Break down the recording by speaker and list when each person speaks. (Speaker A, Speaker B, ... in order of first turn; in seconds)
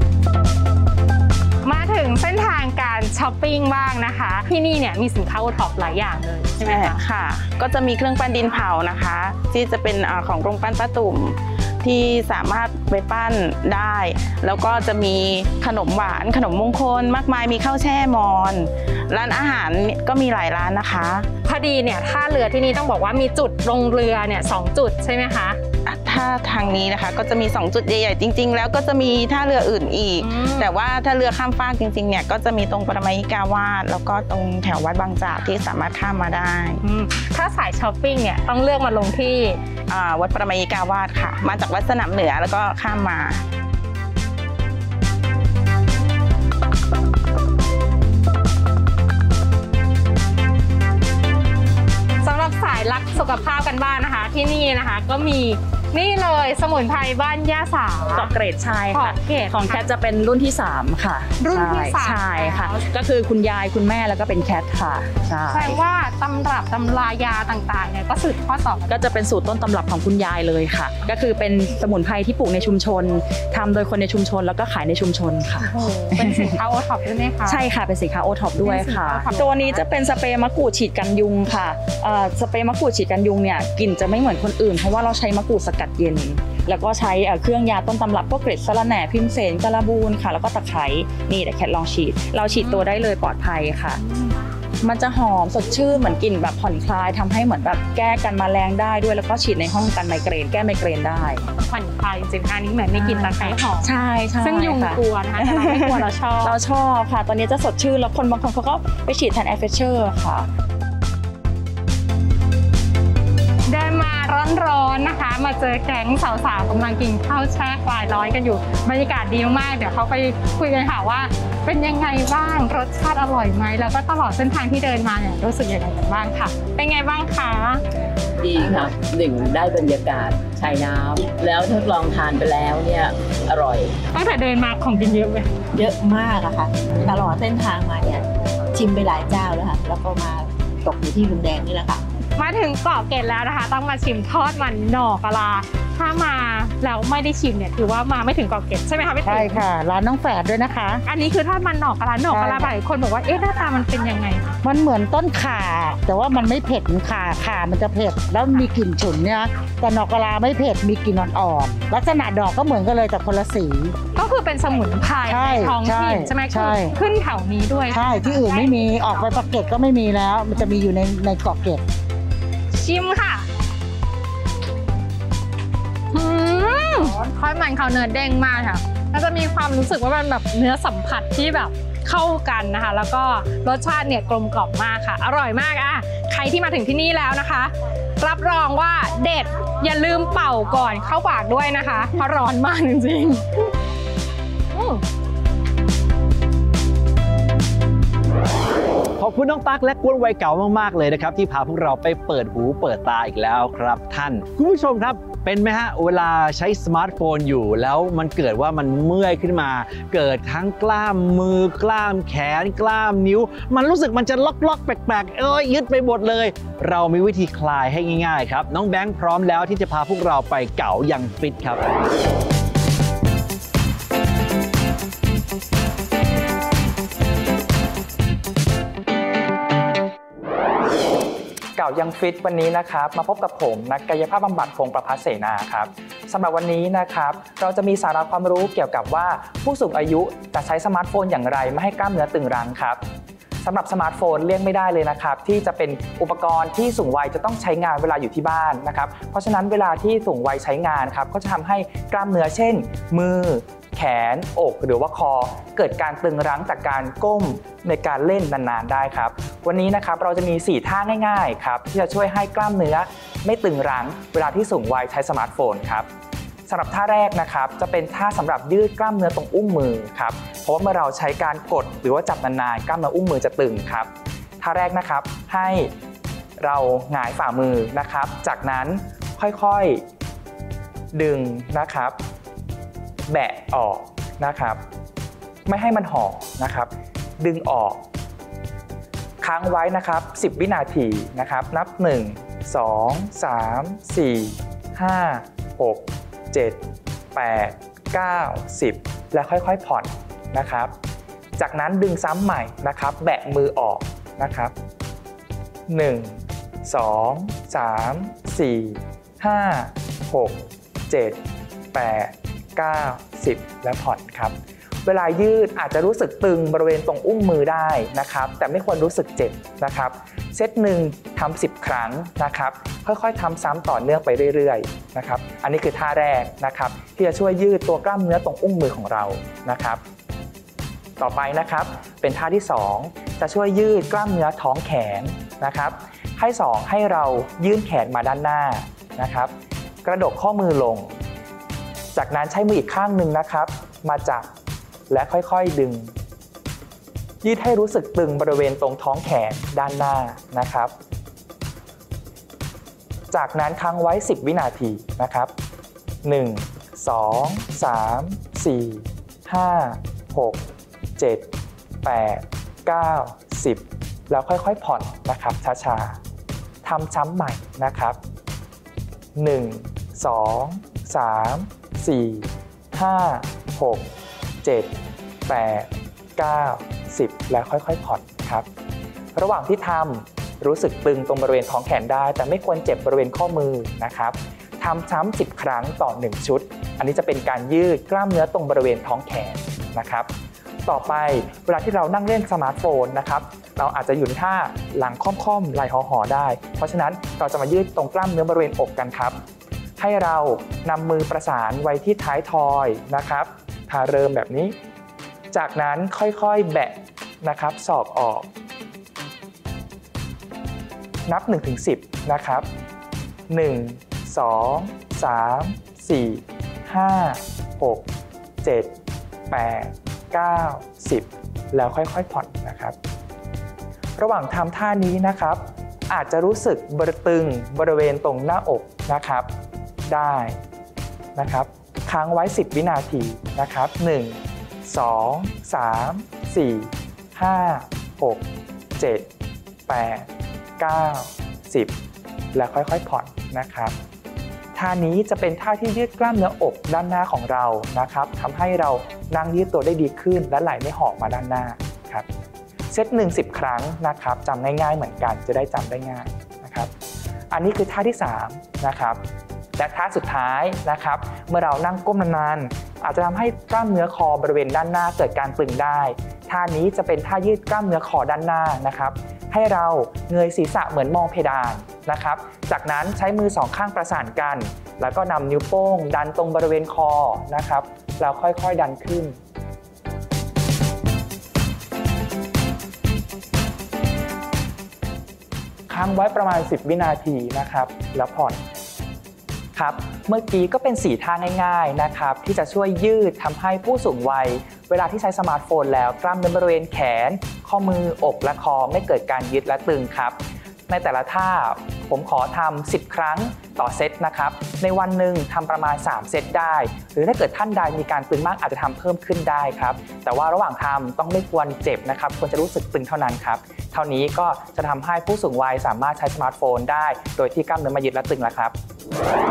Speaker A: 1.6-7.0, 21.5-25.6, 30.2-30.7, 36.8-39.6, 52.2-58.3, 58.9-59.9, 61.4-62.9, 65.5-69.0, 75.6-77.6, 78.6-79.8, 92.6-92.9, 94.1-94.3, 101.5-103.9, 104.4-106.6, 113.7-127.8, 134.1-135.5, 142.4-149.6, 151.1-154.6, 164.2-168.7, 172.7-173.5, 176.1-193.7, 194.7-195.0
Speaker B: 6.6-21.3, 25.9-36.8, 39.9-43.4
Speaker C: 58.0-65.8, 68.9-76.6, 77.4-94.0, 94.8-101.5, 102.9-110.5
Speaker D: 128.4-134.0
Speaker E: 135.7-142.0
Speaker F: 149.2-151.0, 152.3-152.7, 154.6-164.0, 165.3-166.9, 167.9-171.8
Speaker G: 199.2-221.9
Speaker H: 231.8-243.0, 243.6-266.1, 266.7-275.9, 276.6-280.0, 281.1-282.2, 283.3-284.8, 285.7-288.0, 289.4-296.8, 297.3-300.9, 301.6-304.7, 305.9-311.4, 311.9-330.0, 331.2-339.5, 340.0-341.2, 342.1-344.5, 345.1-346.1, 347.4-350.9, 353.3-355.5, 356.2-360.6, 361.2-361.5, 362.0-366.2, 366.8-368.2, 369.4-374.1, 374.6-374.9, 375.5-378.7, 379.4-390.3, 390.9-399.4, 400.0-404.8, 405.5-408.5, 411.3-412.7, 413.5-418.1, 418.6-419.0, 419.5-422.9, 424.2-429.5, 430.1-430.6, 431.4-438.5, 439.0-439.3, 439.9-440.3, 440.8-441.9, 442.5-443.9, 444.8-452.3, 452.9-456.9, 457.5-459.2, 459.8-479.4, 485.9-488.6, 489.8-518.8